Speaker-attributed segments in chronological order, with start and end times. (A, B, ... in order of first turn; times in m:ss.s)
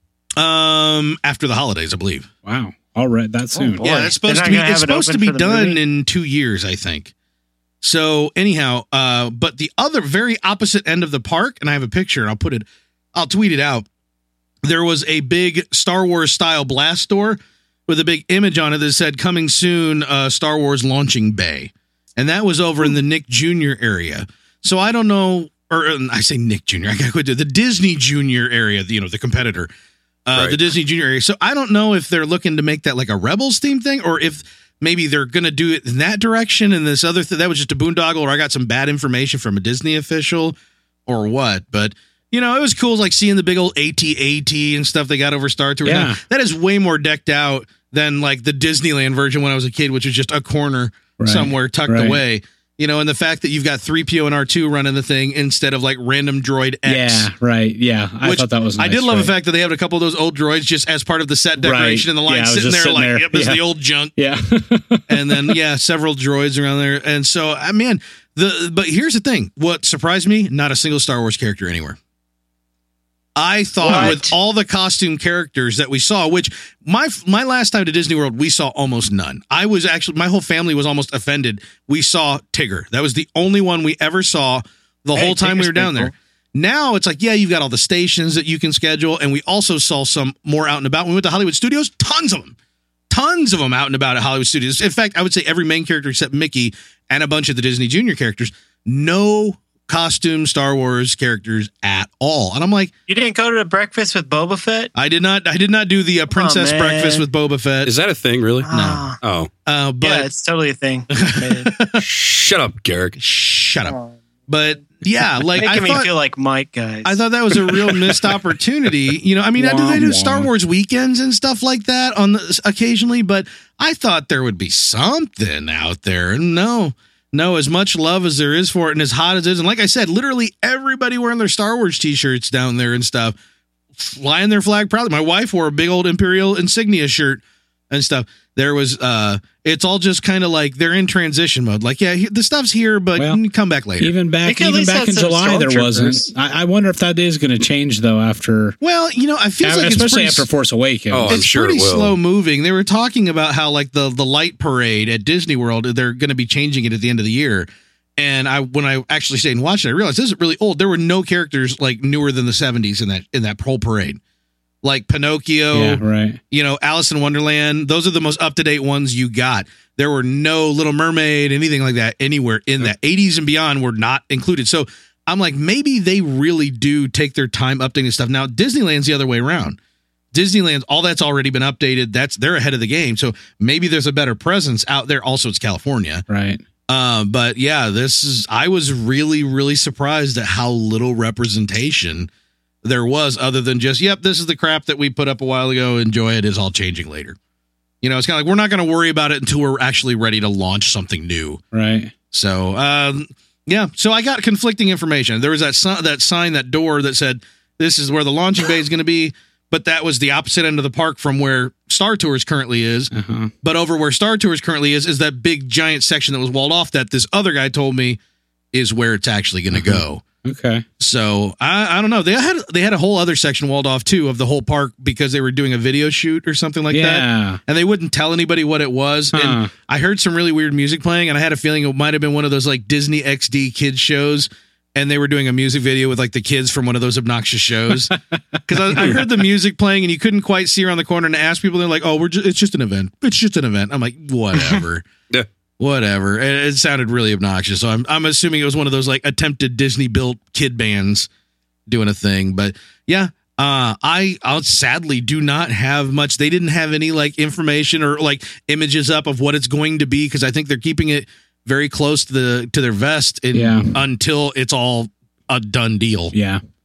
0:00.4-0:02.3 A
0:02.4-0:03.9 B
0:03.6-0:05.8 C
0:03.8-0:07.1 A
0:07.8-0:13.8 A
0:14.6-0:29.7 A
0:30.2-0:40.5 A
0:41.0-0:57.3 A
0:45.8-0:46.2 B
0:51.2-0:52.2 B
0:56.8-0:59.3 B
0:58.2-1:04.2 A
1:01.6-1:05.6 B
1:05.1-1:12.0 A
1:13.4-1:32.5 A
1:13.8-1:14.3 C
1:25.1-1:26.1 C
1:33.1-1:42.9 A
1:43.1-1:44.9 C
1:44.9-1:47.9 A
1:46.3-1:47.2 C
1:47.8-1:49.5 D
1:48.6-1:49.2 C
1:48.7-1:49.0 A
1:49.6-1:50.3 A
1:50.0-1:51.7 C
1:51.1-1:52.0 A
1:52.0-1:53.2 D
1:53.2-1:54.0 A
1:53.9-1:54.2 C
1:54.5-1:56.1 A
1:55.5-1:57.9 C
1:57.0-2:13.3 A
1:59.6-2:00.5 B
2:14.0-2:24.1 A
2:23.2-2:23.4 B
2:24.0-2:28.8 B
2:24.4-2:26.3 C
2:28.8-2:30.5 A
2:29.6-2:31.4 B
2:31.1-2:32.2 D
2:31.3-2:44.2 A
2:44.8-2:59.8 A
2:45.7-2:46.4 B
3:00.3-3:06.2 A
3:06.3-3:06.6 B
3:06.9-3:12.3 A
3:12.8-3:17.4 A
3:18.0-3:21.6 A
3:21.7-3:22.1 B
3:22.3-3:38.2 A
3:33.1-3:33.5 B
3:38.7-3:40.2 A
3:39.8-3:40.8 B
3:41.0-3:58.1 A
3:46.9-3:47.6 B
3:49.3-3:49.7 B
3:58.6-4:05.0 A
4:05.8-4:11.3 A
4:11.9-4:26.3 A
4:23.5-4:24.0 B
4:26.3-4:26.6 B